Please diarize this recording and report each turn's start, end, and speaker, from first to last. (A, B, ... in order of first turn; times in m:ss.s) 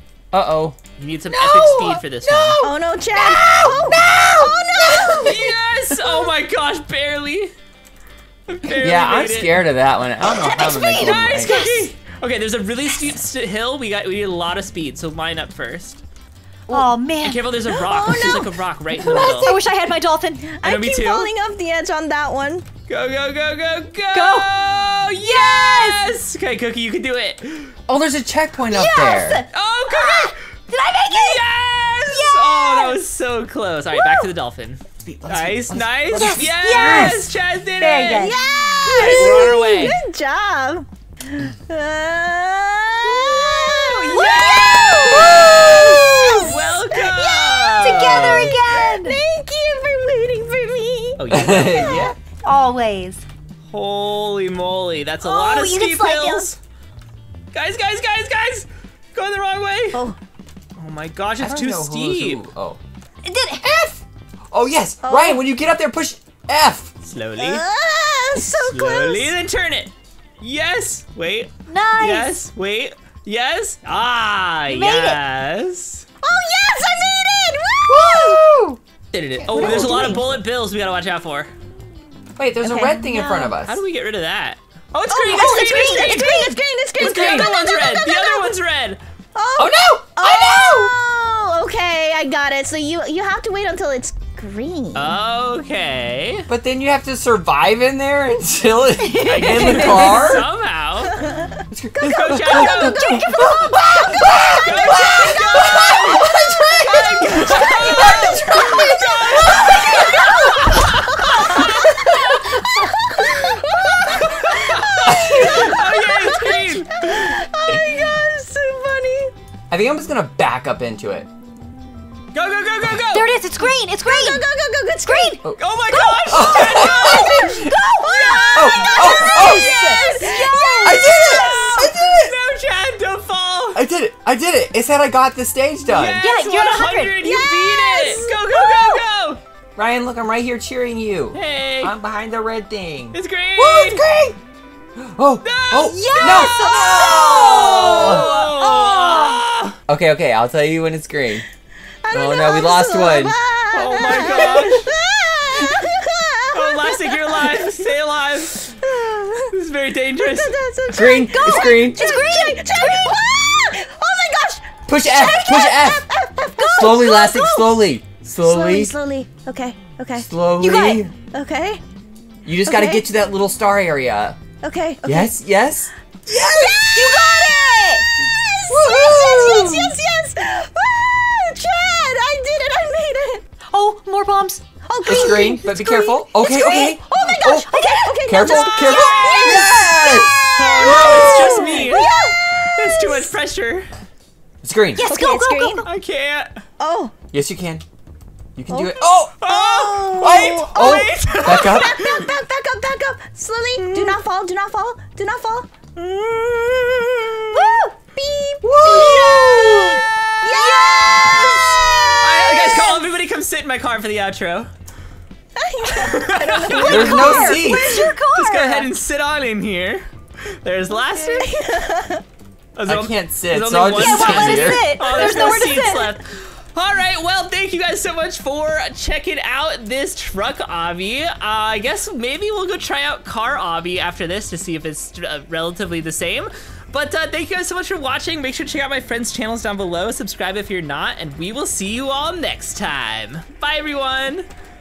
0:00.3-0:00.8 A
0:01.0-0:02.6 B
0:01.3-0:05.3 A
0:02.6-0:05.5 C
0:05.0-0:07.5 B
0:08.5-0:09.6 B
0:08.7-0:11.6 A
0:10.3-0:11.9 D
0:10.9-0:16.0 B
0:16.7-0:17.5 D
0:17.2-0:19.5 B
0:17.7-0:19.7 C
0:19.0-0:20.5 D
0:20.4-0:22.6 C
0:20.6-0:21.3 B
0:22.9-0:27.7 B
0:24.1-0:24.5 D
0:25.2-0:26.0 D
0:27.9-0:29.4 A
0:28.7-0:31.5 D
0:29.5-0:30.4 B
0:31.0-0:40.0 B
0:32.0-0:33.0 D
0:33.9-0:34.2 D
0:35.0-0:37.2 A
0:36.1-0:38.4 D
0:38.1-0:52.1 C
0:43.2-0:48.5 B
0:45.1-0:46.5 A
0:47.8-0:49.2 D
0:51.2-0:52.1 B
0:51.3-0:52.2 A
0:52.4-0:53.2 D
0:53.7-0:56.6 B
0:55.2-0:56.5 D
0:57.5-1:00.1 B
1:00.8-1:02.4 B
1:01.4-1:02.8 A
1:03.2-1:03.9 D
1:04.5-1:06.9 A
1:05.0-1:05.4 C
1:07.0-1:07.6 B
1:07.4-1:09.3 C
1:08.4-1:16.0 B
1:11.7-1:12.4 D
1:14.7-1:15.2 D
1:16.2-1:18.4 C
1:17.9-1:18.8 A
1:19.1-1:21.5 B
1:19.4-1:20.2 A
1:19.5-1:20.2 C
1:22.4-1:23.8 A
1:22.6-1:23.5 C
1:23.6-1:29.0 B
1:25.1-1:28.6 C
1:25.4-1:25.8 D
1:27.0-1:27.5 A
1:29.3-1:35.2 C
1:29.6-1:30.9 A
1:34.9-1:36.5 B
1:36.5-1:40.5 A
1:39.0-1:40.3 D
1:39.2-1:41.3 B
1:41.1-1:41.6 C
1:41.7-1:50.5 A
1:42.0-1:52.2 B
1:42.5-1:44.6 C
1:46.2-1:59.3 C
1:51.7-1:52.2 A
1:53.2-1:57.3 B
1:55.1-1:55.6 A
1:59.7-2:01.3 A
2:02.3-2:03.4 B
2:03.1-2:04.4 D
2:04.0-2:05.4 C
2:05.0-2:11.8 D
2:05.6-2:10.4 B
2:06.2-2:07.8 A
2:08.1-2:11.6 C
2:08.5-2:09.7 A
2:10.8-2:12.3 A
2:11.0-2:13.8 B
2:13.7-2:16.2 A
2:15.8-2:19.4 B
2:16.2-2:17.2 D
2:17.2-2:19.0 C
2:19.8-2:24.4 A
2:21.3-2:21.9 B
2:23.1-2:24.0 B
2:25.0-2:28.3 A
2:25.4-2:29.8 B
2:25.7-2:28.3 D
2:27.2-2:29.4 C
2:29.9-2:31.4 A
2:32.0-2:37.9 C
2:32.1-2:33.4 A
2:33.7-2:34.9 B
2:36.5-2:38.8 B
2:38.8-2:39.5 C
2:39.5-2:40.6 B
2:40.2-2:51.8 C
2:40.9-2:42.0 A
2:42.0-2:42.6 D
2:44.9-2:46.0 A
2:46.6-2:48.9 A
2:50.1-2:51.1 A
2:52.4-2:54.4 A
2:52.6-2:53.0 C
2:54.6-2:55.3 C
2:55.0-2:57.3 A
2:56.3-3:03.4 C
2:57.1-2:57.8 D
2:58.7-3:00.0 A
3:03.7-3:04.7 D
3:04.8-3:13.3 C
3:05.0-3:11.6 A
3:07.6-3:09.4 D
3:08.9-3:09.8 B
3:10.6-3:13.9 B
3:14.6-3:15.1 A
3:15.0-3:15.9 D
3:15.0-3:15.9 C
3:15.8-3:16.6 B
3:16.8-3:17.1 C
3:17.3-3:17.8 A
3:18.6-3:19.4 A
3:18.7-3:25.7 C
3:19.4-3:22.3 B
3:20.1-3:22.1 A
3:23.8-3:24.2 B
3:26.0-3:27.3 B
3:27.5-3:27.9 D
3:27.5-3:33.0 C
3:28.6-3:30.0 A
3:28.8-3:29.4 D
3:30.4-3:31.3 D
3:31.3-3:34.7 B
3:35.6-3:38.1 C
3:35.8-3:37.6 B
3:36.7-3:38.9 D
3:36.9-3:38.0 A
3:38.3-3:41.6 B
3:41.1-3:42.2 C
3:42.7-4:04.5 B
3:42.8-3:45.0 A
3:43.9-3:46.1 D
3:45.1-3:45.7 C